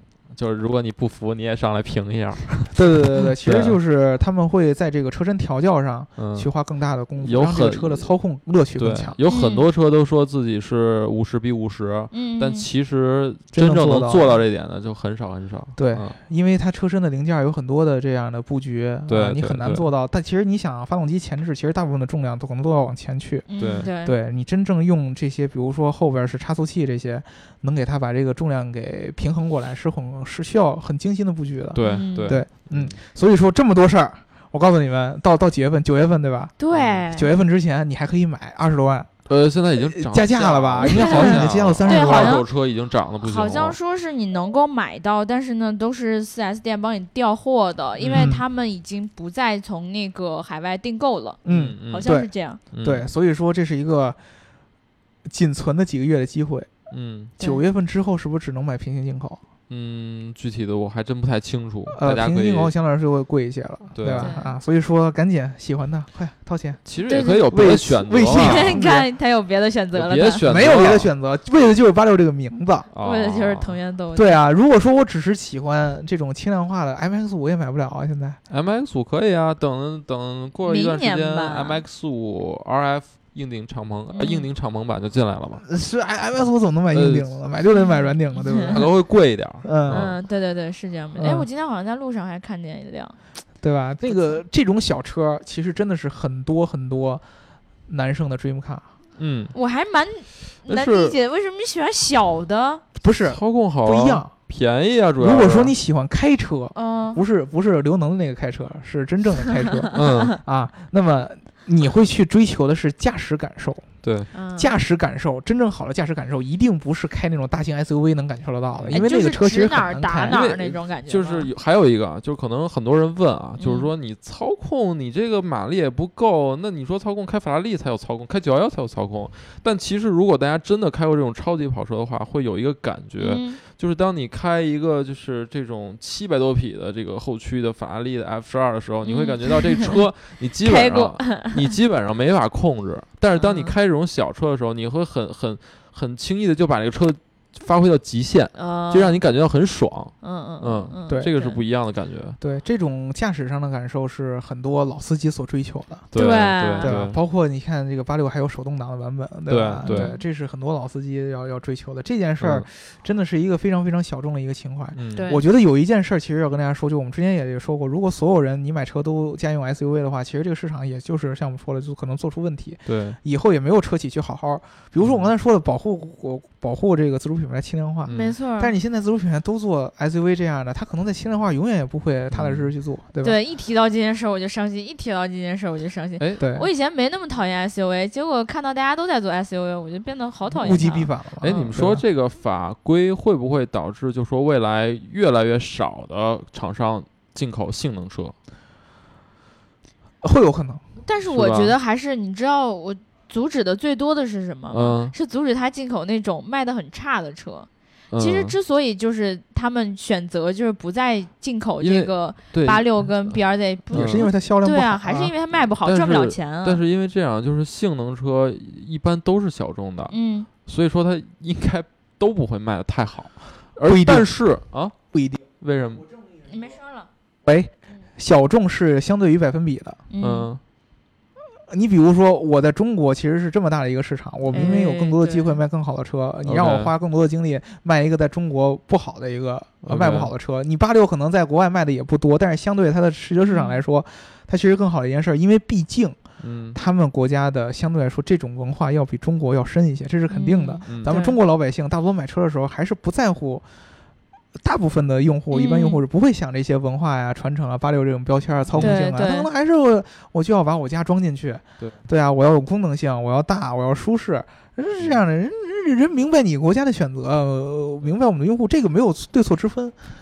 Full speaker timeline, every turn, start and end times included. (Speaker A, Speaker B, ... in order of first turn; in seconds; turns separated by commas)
Speaker A: 0.3-3.8, Speaker B: 2.7-9.2, Speaker A: 6.2-6.5, Speaker A: 7.2-8.1, Speaker A: 8.8-16.2, Speaker C: 9.2-9.7, Speaker C: 12.1-12.7, Speaker B: 13.5-14.4, Speaker B: 15.8-36.6, Speaker A: 19.1-19.9, Speaker C: 23.5-24.1, Speaker A: 23.6-23.9, Speaker A: 31.7-33.0, Speaker C: 31.8-32.4, Speaker C: 36.6-37.4, Speaker A: 36.7-37.1, Speaker B: 37.1-39.1, Speaker A: 39.3-43.8, Speaker B: 39.8-42.4, Speaker C: 40.9-42.5, Speaker C: 43.2-52.6, Speaker A: 48.0-48.3, Speaker B: 48.1-48.4, Speaker B: 51.5-52.3, Speaker A: 51.5-52.1, Speaker A: 52.7-53.1, Speaker B: 52.8-54.2, Speaker B: 55.3-56.7, Speaker A: 56.9-57.3, Speaker B: 57.4-59.4, Speaker A: 59.7-62.7, Speaker B: 61.9-66.9, Speaker A: 64.0-64.3, Speaker C: 64.1-64.5, Speaker A: 66.9-68.8, Speaker C: 67.1-67.5, Speaker B: 67.5-69.1, Speaker C: 68.3-70.5, Speaker A: 69.9-71.1, Speaker B: 70.5-72.9, Speaker A: 72.9-73.8, Speaker C: 73.0-74.4, Speaker B: 74.2-78.4, Speaker A: 78.5-85.6, Speaker C: 80.7-81.8, Speaker C: 84.1-84.5, Speaker B: 85.6-89.0, Speaker A: 86.9-87.3, Speaker C: 87.7-88.7, Speaker A: 88.6-90.2, Speaker B: 89.6-90.1, Speaker C: 89.9-93.2, Speaker B: 91.2-91.5, Speaker B: 93.6-97.2, Speaker B: 97.9-98.9, Speaker A: 99.2-99.5, Speaker C: 99.5-102.8, Speaker A: 100.7-101.2, Speaker B: 103.0-104.3, Speaker A: 103.2-105.7, Speaker B: 105.2-113.9, Speaker C: 106.8-107.2, Speaker C: 109.7-110.3, Speaker A: 109.9-110.4, Speaker A: 114.0-114.3, Speaker C: 114.3-114.7, Speaker B: 114.6-120.4, Speaker A: 118.8-119.1, Speaker C: 118.9-121.5, Speaker A: 120.3-152.4, Speaker C: 123.6-123.9, Speaker C: 133.2-133.6, Speaker C: 139.0-140.0, Speaker C: 140.6-141.7, Speaker C: 143.3-143.8, Speaker C: 148.6-149.2, Speaker C: 150.2-151.6, Speaker B: 152.4-156.1, Speaker A: 156.1-157.2, Speaker C: 156.1-157.0, Speaker B: 156.8-183.4, Speaker A: 159.5-160.1, Speaker C: 159.8-160.2, Speaker A: 162.4-162.7, Speaker A: 164.9-165.3, Speaker C: 165.2-165.4, Speaker A: 172.9-173.2, Speaker A: 175.0-175.3, Speaker A: 178.1-178.3, Speaker C: 178.1-178.7, Speaker A: 182.3-182.7, Speaker C: 183.2-191.7, Speaker A: 186.2-186.5, Speaker B: 186.4-186.7, Speaker B: 190.5-192.0, Speaker A: 191.4-198.3, Speaker B: 200.2-200.8, Speaker C: 201.0-216.8, Speaker A: 201.2-201.8, Speaker A: 204.7-205.1, Speaker A: 208.1-208.6, Speaker A: 211.8-213.4, Speaker B: 213.9-215.3, Speaker A: 213.9-214.3, Speaker A: 215.8-220.2, Speaker C: 220.1-220.5, Speaker A: 220.7-224.9, Speaker B: 223.8-224.3, Speaker B: 225.1-225.4, Speaker A: 225.6-226.1, Speaker C: 226.4-227.1, Speaker B: 227.4-230.0, Speaker C: 230.1-230.5, Speaker A: 230.2-230.6, Speaker B: 231.7-246.2, Speaker C: 234.5-235.6, Speaker A: 236.4-236.9, Speaker A: 239.8-240.3, Speaker C: 243.5-243.8, Speaker A: 246.4-246.8, Speaker B: 246.7-253.7, Speaker C: 250.3-251.4, Speaker A: 250.9-251.2, Speaker B: 254.6-269.9, Speaker C: 255.5-256.0, Speaker A: 258.7-259.0, Speaker C: 258.8-259.5